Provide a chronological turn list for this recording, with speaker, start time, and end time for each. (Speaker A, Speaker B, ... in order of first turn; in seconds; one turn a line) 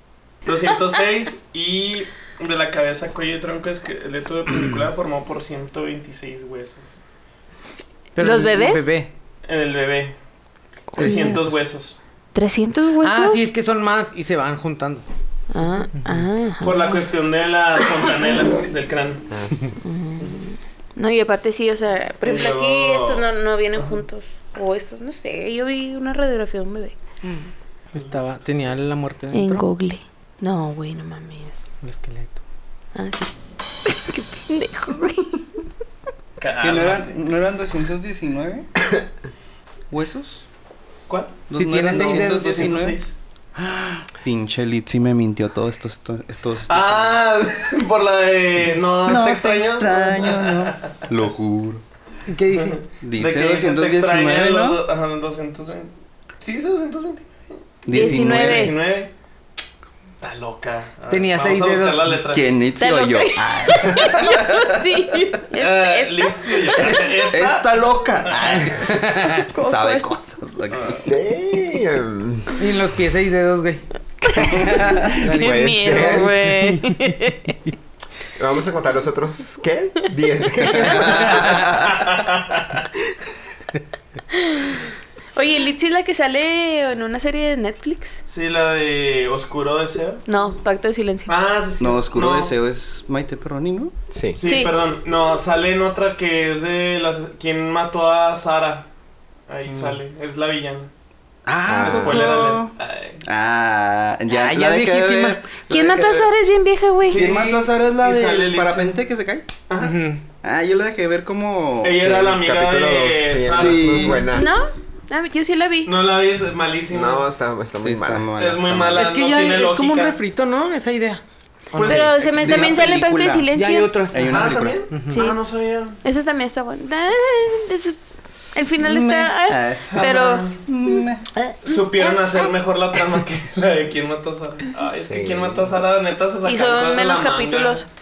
Speaker A: 0.4-7.0
Speaker B: 8.2-9.1
Speaker C: 8.2-9.0
Speaker A: 9.4-10.2
Speaker A: 10.9-12.0
Speaker B: 11.0-11.6
Speaker C: 11.0-11.5
Speaker C: 12.3-13.5
Speaker B: 13.0-15.1
Speaker C: 15.5-17.1
Speaker A: 16.6-19.3
Speaker D: 19.3-19.8
Speaker C: 19.8-26.9
Speaker A: 22.2-24.0
Speaker B: 27.2-29.6
Speaker C: 29.3-31.6
Speaker B: 31.8-32.4
Speaker C: 32.9-33.3
Speaker C: 33.8-35.5
Speaker A: 36.4-37.3
Speaker E: 36.6-38.7
Speaker E: 39.9-40.4
Speaker A: 41.1-43.1
Speaker E: 41.5-43.0
Speaker B: 41.5-42.8
Speaker E: 43.5-47.2
Speaker A: 46.7-51.0
Speaker E: 49.0-51.8
Speaker B: 52.3-52.8
Speaker A: 52.5-59.1
Speaker E: 53.0-54.8
Speaker E: 57.9-58.7
Speaker C: 57.9-58.8
Speaker A: 60.2-62.5
Speaker B: 61.1-62.2
Speaker E: 62.3-64.7
Speaker C: 62.8-66.9
Speaker A: 65.5-68.9
Speaker E: 66.8-71.0
Speaker C: 69.5-70.1
Speaker D: 70.8-72.5
Speaker B: 72.6-73.8
Speaker E: 74.2-75.2
Speaker B: 75.1-76.1
Speaker C: 75.2-77.6
Speaker D: 75.3-76.4
Speaker D: 78.4-81.7
Speaker E: 80.9-81.7
Speaker A: 81.2-82.2
Speaker C: 84.3-84.8
Speaker C: 85.3-88.2
Speaker A: 88.2-90.2
Speaker C: 90.2-91.3
Speaker A: 91.3-92.5
Speaker E: 91.8-93.9
Speaker D: 94.1-94.4
Speaker A: 94.3-98.9
Speaker C: 94.4-94.7
Speaker A: 99.5-100.9
Speaker E: 101.5-106.3
Speaker D: 101.7-102.4
Speaker A: 101.7-103.2
Speaker B: 104.3-105.5
Speaker C: 105.7-107.2
Speaker A: 107.1-109.0
Speaker E: 107.1-109.5
Speaker A: 109.7-110.0
Speaker B: 109.8-110.2
Speaker E: 110.4-112.1
Speaker A: 111.8-114.2
Speaker D: 112.0-114.5
Speaker E: 113.5-114.3
Speaker C: 114.3-116.0
Speaker A: 115.8-117.3
Speaker D: 116.9-118.3
Speaker E: 117.8-119.0
Speaker A: 118.3-120.2
Speaker B: 118.9-121.2
Speaker B: 121.7-122.0
Speaker A: 121.7-122.8
Speaker E: 121.8-123.5
Speaker C: 121.8-124.1
Speaker B: 123.5-125.2
Speaker E: 124.1-124.8
Speaker A: 124.2-126.0
Speaker C: 125.1-125.4
Speaker C: 126.0-128.0
Speaker C: 128.5-131.1
Speaker E: 128.8-131.5
Speaker A: 129.9-130.6
Speaker A: 131.6-137.8
Speaker D: 134.9-135.8
Speaker C: 136.4-137.8